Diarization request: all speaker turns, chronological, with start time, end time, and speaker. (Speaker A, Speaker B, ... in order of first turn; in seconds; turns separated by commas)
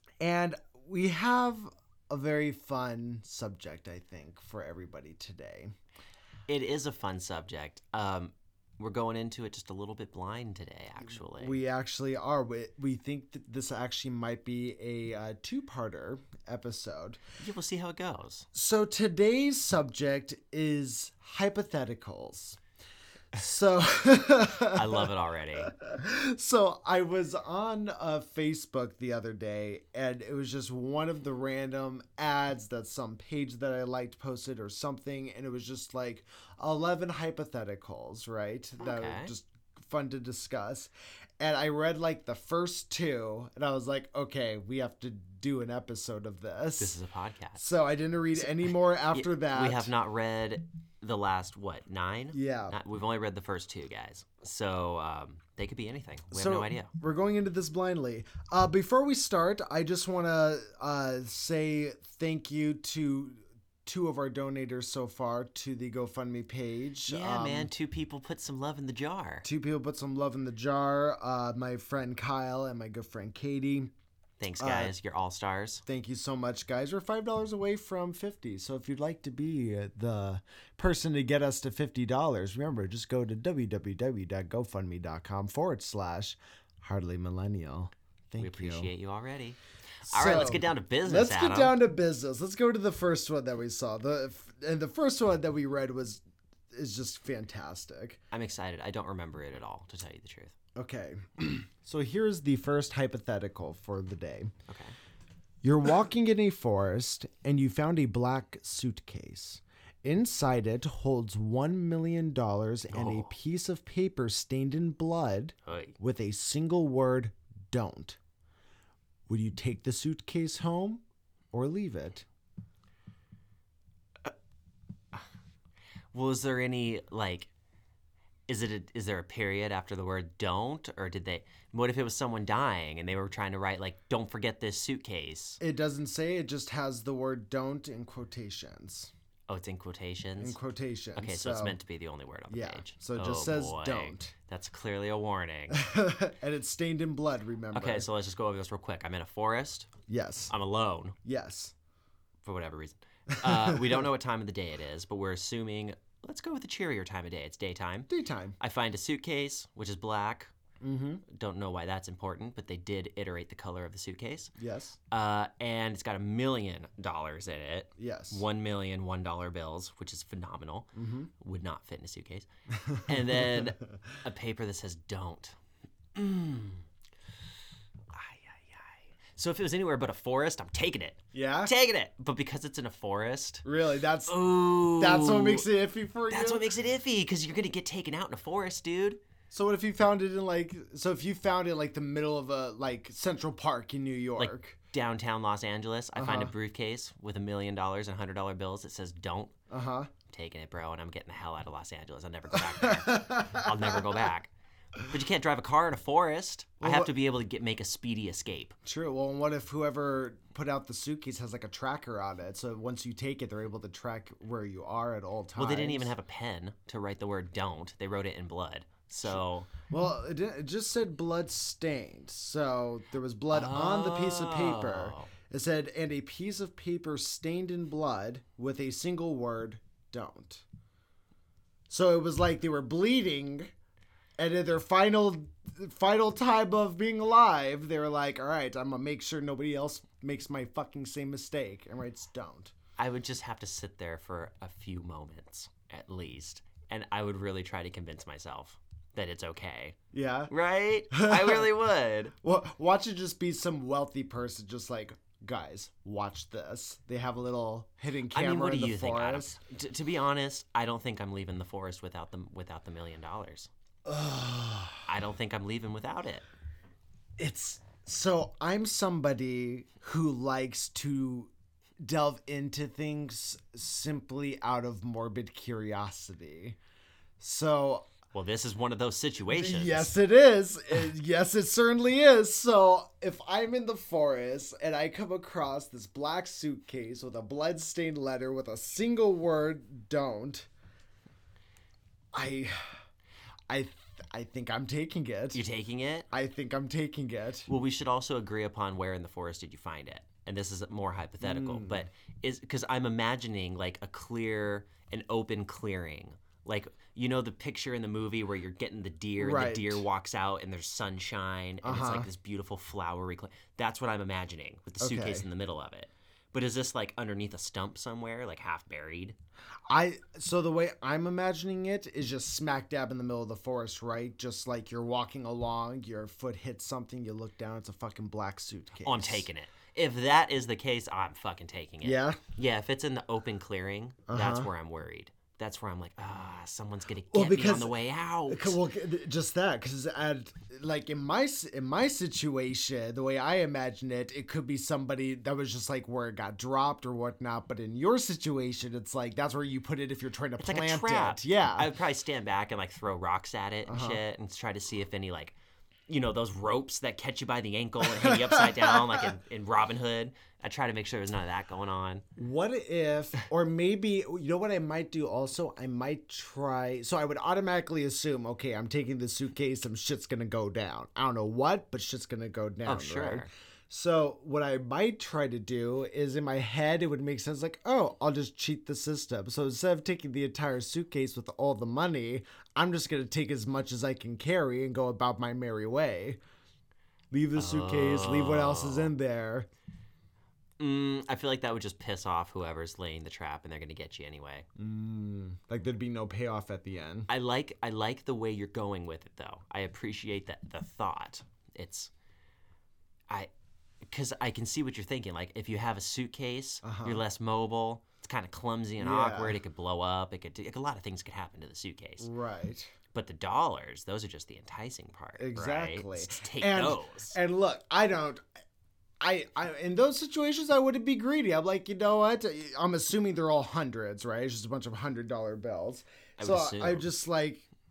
Speaker A: 0.2-5.7, Speaker B: 6.5-11.6, Speaker A: 11.0-17.2, Speaker B: 17.4-18.5, Speaker A: 18.5-22.6, Speaker A: 23.3-47.0, Speaker B: 24.7-25.7, Speaker B: 38.8-39.3, Speaker B: 46.8-47.7, Speaker A: 47.5-49.9, Speaker B: 48.4-56.9, Speaker A: 52.3-52.8, Speaker A: 56.3-67.7, Speaker B: 67.1-69.5, Speaker A: 69.4-73.9, Speaker B: 74.4-75.8, Speaker A: 74.6-74.9, Speaker A: 75.9-88.9, Speaker B: 88.4-91.8, Speaker A: 90.0-96.2, Speaker A: 96.7-98.2, Speaker B: 98.3-100.5, Speaker A: 100.8-104.5, Speaker B: 104.7-105.0, Speaker A: 105.6-118.2, Speaker B: 112.9-113.3, Speaker B: 115.7-116.0, Speaker A: 119.3-121.0, Speaker A: 121.5-122.3, Speaker B: 126.1-127.5, Speaker B: 128.5-135.6, Speaker A: 135.6-139.1, Speaker B: 139.5-140.6, Speaker A: 140.4-141.8, Speaker B: 141.2-145.8, Speaker A: 142.5-144.3, Speaker A: 145.7-148.1, Speaker B: 147.7-149.9, Speaker A: 150.1-150.5, Speaker B: 150.5-151.2, Speaker A: 151.2-151.7, Speaker B: 152.4-158.1, Speaker A: 153.3-154.0, Speaker A: 158.1-158.6, Speaker B: 158.6-160.5, Speaker A: 160.8-161.2, Speaker B: 161.3-164.5, Speaker A: 164.6-165.0, Speaker B: 165.1-175.6, Speaker A: 168.0-168.4, Speaker A: 170.9-171.3, Speaker A: 172.8-173.6, Speaker B: 176.1-176.8, Speaker B: 178.1-183.7, Speaker A: 181.3-181.7, Speaker A: 183.7-186.7, Speaker B: 184.3-185.7, Speaker B: 186.3-189.2, Speaker A: 189.5-194.8, Speaker B: 194.4-199.5, Speaker A: 196.2-196.5, Speaker A: 199.7-200.1, Speaker B: 200.3-204.5, Speaker A: 202.6-204.1, Speaker B: 205.1-208.8, Speaker A: 206.8-207.1, Speaker A: 208.8-216.1, Speaker B: 215.6-219.7, Speaker A: 219.3-230.7, Speaker B: 223.5-225.3, Speaker A: 231.9-233.7, Speaker A: 234.4-242.7, Speaker B: 243.0-250.0, Speaker A: 250.1-250.5, Speaker B: 250.5-252.3, Speaker A: 251.1-251.7, Speaker A: 252.4-259.6, Speaker B: 258.3-263.7, Speaker A: 264.1-265.1, Speaker B: 265.1-266.4, Speaker A: 267.4-271.5, Speaker A: 272.0-276.8, Speaker A: 277.4-278.1, Speaker B: 278.3-280.1, Speaker A: 279.5-290.7, Speaker A: 292.3-292.9, Speaker A: 293.7-295.6, Speaker B: 295.5-296.3, Speaker A: 296.3-297.7, Speaker B: 297.7-319.4, Speaker A: 301.4-302.1, Speaker A: 309.4-310.0, Speaker A: 311.8-312.3, Speaker A: 315.0-315.5, Speaker A: 319.9-329.5, Speaker B: 329.1-338.8, Speaker A: 332.0-332.4, Speaker A: 334.3-334.7, Speaker A: 337.3-351.9, Speaker B: 350.6-355.6, Speaker A: 353.9-354.2, Speaker B: 356.1-362.2, Speaker A: 358.1-359.3, Speaker A: 362.4-386.4, Speaker B: 372.9-373.5, Speaker A: 387.3-389.7, Speaker B: 387.6-389.1, Speaker B: 390.8-394.7, Speaker A: 394.8-397.3, Speaker B: 397.3-402.1, Speaker B: 404.0-412.3, Speaker A: 406.8-407.2, Speaker A: 409.0-409.6, Speaker A: 412.2-412.9, Speaker B: 413.1-417.4, Speaker A: 415.4-418.4, Speaker A: 419.2-427.7, Speaker B: 426.4-427.1